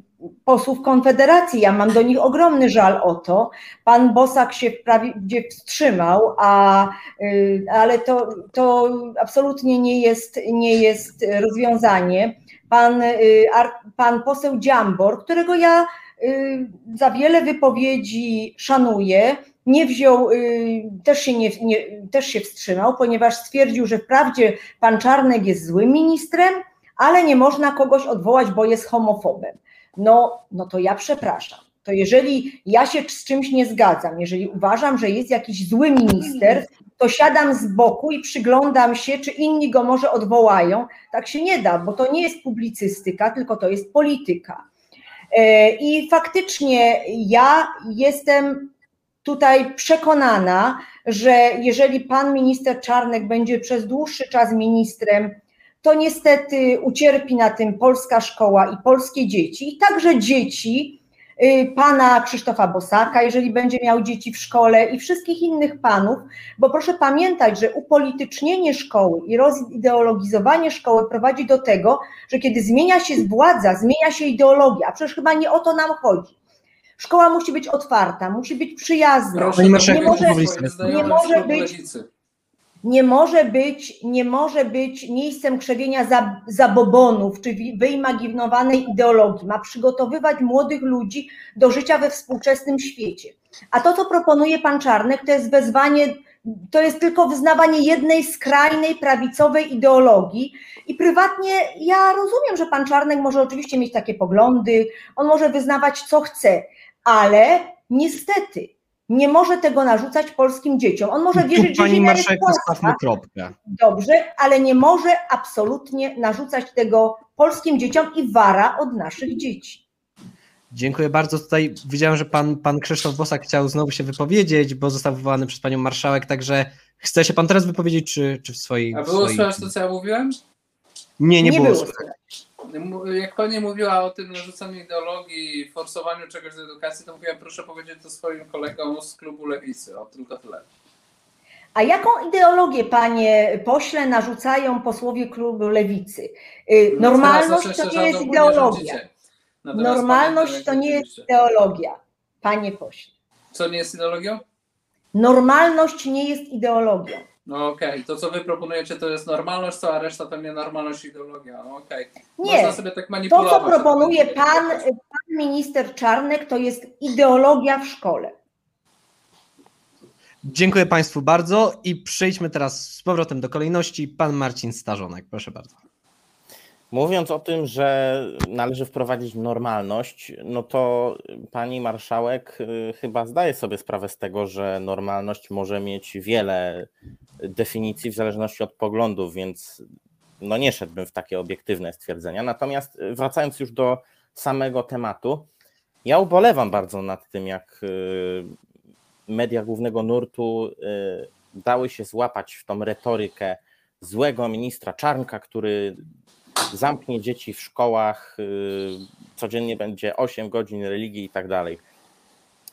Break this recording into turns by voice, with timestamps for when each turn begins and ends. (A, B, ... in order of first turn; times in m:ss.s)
0:00.4-0:44.6 A
0:45.3-0:48.7 A
0:49.2-1:16.3 A
1:17.0-1:21.7 A
1:19.3-1:22.1 B
1:19.6-1:21.1 C
1:22.8-1:53.0 A
1:51.3-1:53.5 C
1:53.6-1:59.8 A
2:00.7-2:09.7 C
2:08.9-2:10.4 B
2:11.2-2:12.0 C
2:11.4-2:12.1 A
2:12.6-2:20.6 B
2:21.7-2:29.0 A
2:26.9-2:29.1 B
2:29.6-2:31.3 B
2:29.7-2:33.1 A
2:33.5-2:34.4 B
2:35.1-2:37.3 A
2:37.4-2:44.8 B
2:42.4-2:48.3 A
2:50.4-2:55.8 C
2:56.9-3:06.9 D
3:07.4-3:09.8 D
3:10.4-3:15.5 D
3:16.0-3:18.5 D
3:19.3-3:26.0 D
3:26.7-3:31.8 D